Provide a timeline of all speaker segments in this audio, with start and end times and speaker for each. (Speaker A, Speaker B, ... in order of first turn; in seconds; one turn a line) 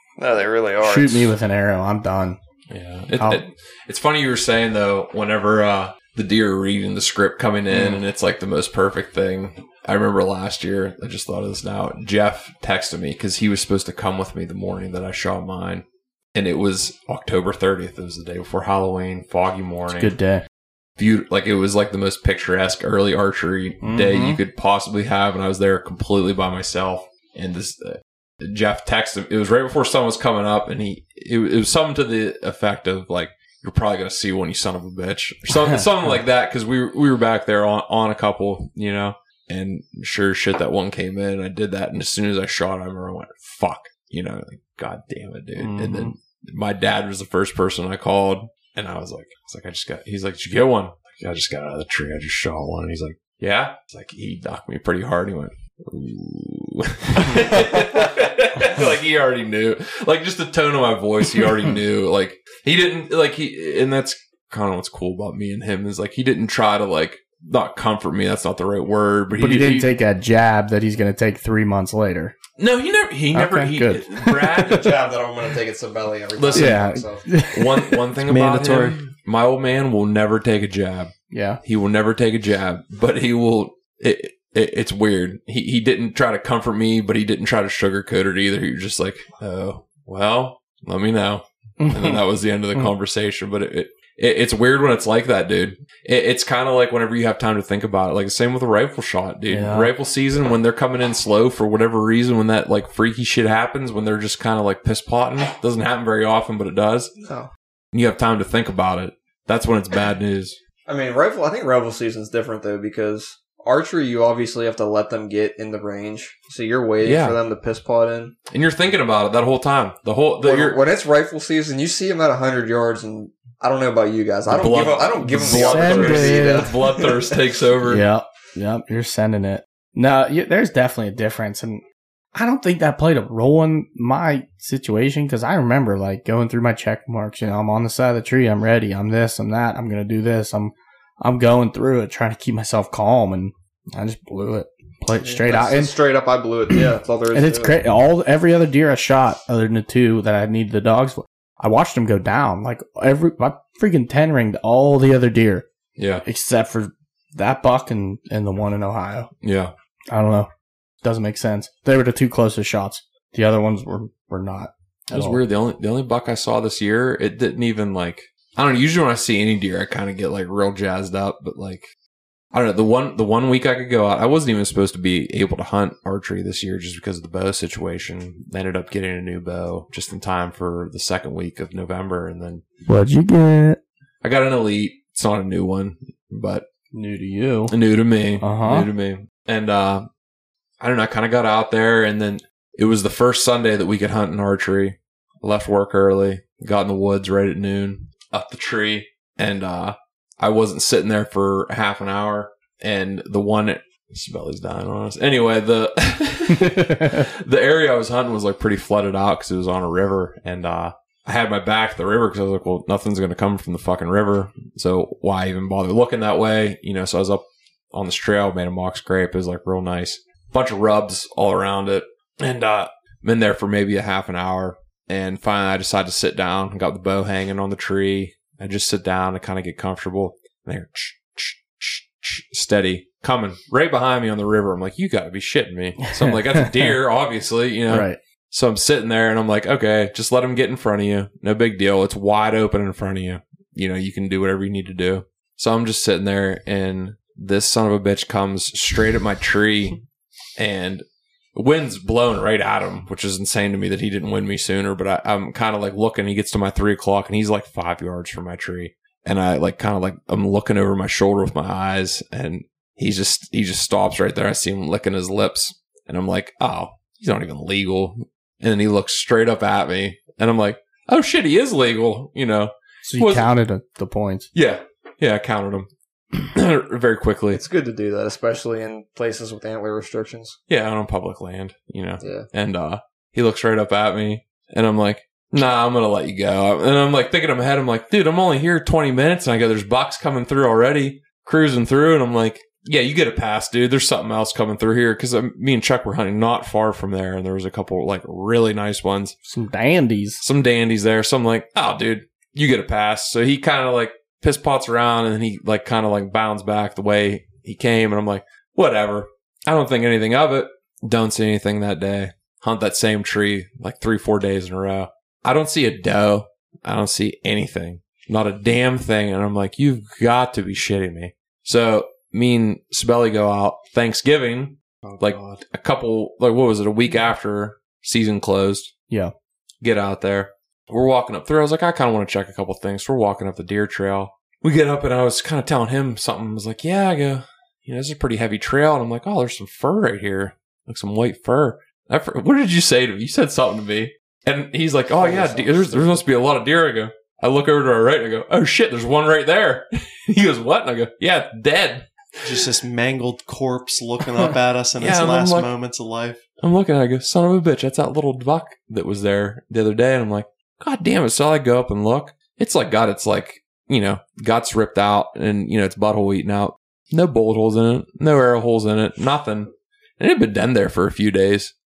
Speaker A: 0.2-1.3
Speaker B: 0.8-2.4
Speaker C: 2.7-20.1
Speaker B: 3.1-3.4
Speaker B: 7.7-8.0
Speaker B: 19.9-20.4
Speaker C: 21.0-69.9
Speaker B: 23.8-24.4
Speaker B: 35.5-35.9
Speaker B: 45.6-46.1
Speaker B: 69.3-72.3
Speaker C: 72.6-75.0
Speaker B: 73.3-74.8
Speaker A: 74.6-77.2
Speaker C: 76.3-76.8
Speaker B: 76.5-78.1
Speaker C: 77.5-81.1
Speaker D: 78.3-79.0
Speaker B: 81.3-81.6
Speaker C: 81.6-107.1
Speaker B: 91.8-92.2
Speaker B: 99.5-99.9
Speaker A: 107.2-107.5
Speaker C: 107.9-110.6
Speaker A: 110.9-118.3
Speaker C: 117.0-117.4
Speaker C: 118.5-120.8
Speaker A: 120.4-127.4
Speaker C: 124.5-128.1
Speaker B: 125.4-126.7
Speaker B: 127.8-145.9
Speaker A: 145.2-147.8
Speaker B: 146.7-155.7
Speaker C: 156.0-156.2
Speaker B: 156.2-159.3
Speaker C: 159.4-159.7
Speaker B: 160.1-160.5
Speaker B: 161.0-165.4
Speaker C: 165.1-171.9
Speaker C: 172.5-182.6
Speaker B: 182.8-183.8
Speaker C: 184.2-186.6
Speaker B: 186.9-187.7
Speaker C: 187.7-190.1
Speaker B: 188.4-188.9
Speaker C: 190.8-250.0
Speaker B: 206.7-207.2
Speaker B: 236.1-236.9
Speaker B: 237.9-238.2
Speaker C: 250.6-251.0
Speaker C: 251.5-273.5
Speaker B: 273.0-274.5
Speaker C: 274.5-277.6
Speaker A: 277.5-280.6
Speaker C: 280.7-299.3
Speaker A: 282.2-282.4
Speaker B: 299.4-300.4
Speaker C: 300.4-328.9
Speaker D: 325.0-325.6
Speaker C: 329.8-352.1
Speaker A: 345.2-345.6
Speaker D: 352.4-356.4
Speaker C: 355.0-355.7
Speaker C: 356.6-371.7